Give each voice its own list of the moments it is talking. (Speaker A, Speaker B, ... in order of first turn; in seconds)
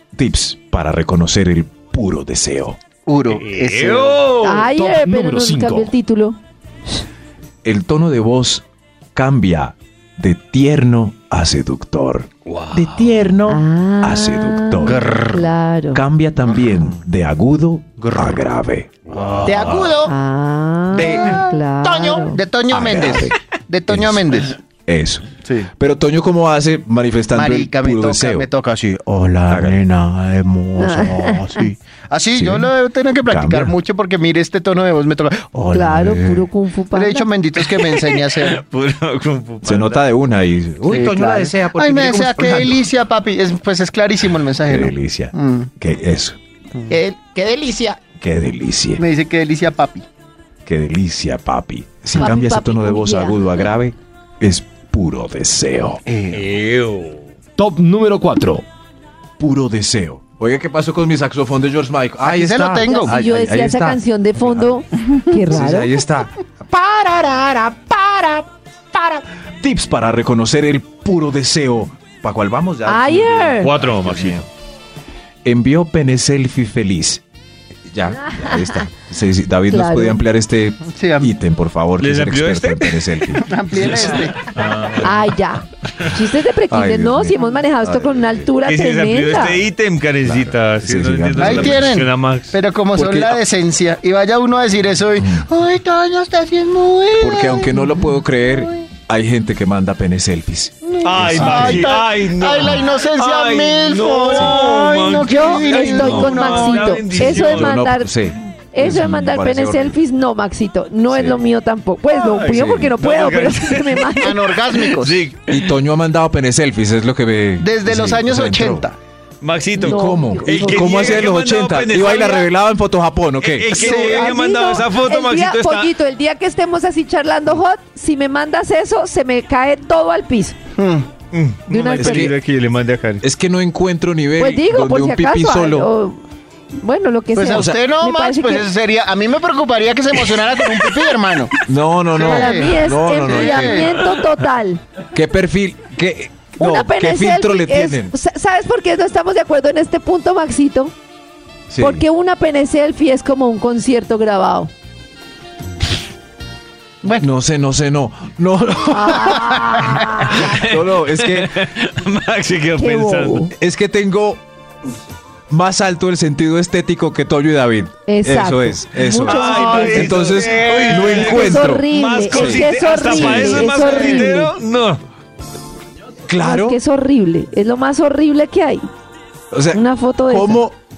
Speaker A: 0.1-2.8, 7.6-15.4, 15.9-19.7, 20.9-21.4, 22.7-23.3, 23.9-28.5, 29.5-29.8, 32.3-32.7, 33.2-33.8, 35.7-36.5, 39.6-42.9, 44.6-46.4, 48.2-49.0, 50.7-56.0, 59.4-64.8, 65.5-74.5, 75.5-77.2, 77.9-84.1, 86.7-88.5, 90.2-92.0, 92.9-93.4, 95.2-95.5, 97.2-101.9, 104.3-104.6, 107.1-110.0, 111.1-111.4, 112.4-113.0, 115.5-118.9, 119.8-123.8, 131.9-132.3, 133.2-135.9, 137.5-137.8, 141.7-144.0, 145.1-148.1, 151.7-152.1, 157.2-161.5, 163.5-164.4, 165.5-174.2, 176.3-176.8, 179.5-180.8
Speaker B: 3.1-4.2, 15.0-15.2, 19.4-20.1, 20.9-24.6, 25.4-25.7, 27.3-35.7, 36.9-38.6, 40.9-45.7, 46.9-48.0, 49.0-50.0, 56.1-56.5, 62.2-63.2, 80.9-81.3, 83.3-84.4, 91.4-98.9, 100.9-107.0, 114.2-115.2, 117.6-119.0, 123.7-124.4, 130.8-131.1, 137.3-141.5, 142.2-144.0, 157.0-157.3, 159.5-160.0
Speaker C: 3.3-4.7, 12.5-13.2, 19.1-20.0, 37.6-40.1, 56.3-57.2, 73.6-74.5, 82.0-83.2, 83.9-85.2, 88.6-92.6, 101.0-107.8, 112.1-115.7, 119.4-122.5, 123.4-125.9, 131.3-133.2, 160.0-163.5, 169.2-175.0
Speaker D: 4.4-6.4, 13.5-16.0, 20.0-22.4, 30.8-31.7, 35.7-37.3, 52.1-53.7, 62.8-66.0, 72.9-73.7, 78.3-78.7, 79.7-80.2, 85.0-89.6, 105.2-108.2, 108.7-114.4, 119.8-121.2, 123.8-130.6, 131.7-132.3, 134.4-136.2, 136.8-138.7, 142.2-144.8, 146.6-150.9, 151.8-154.7, 158.9-160.6, 162.8-163.5, 168.1-174.5, 176.4-178.8, 179.7-180.6
Speaker E: 4.7-6.0, 57.6-58.7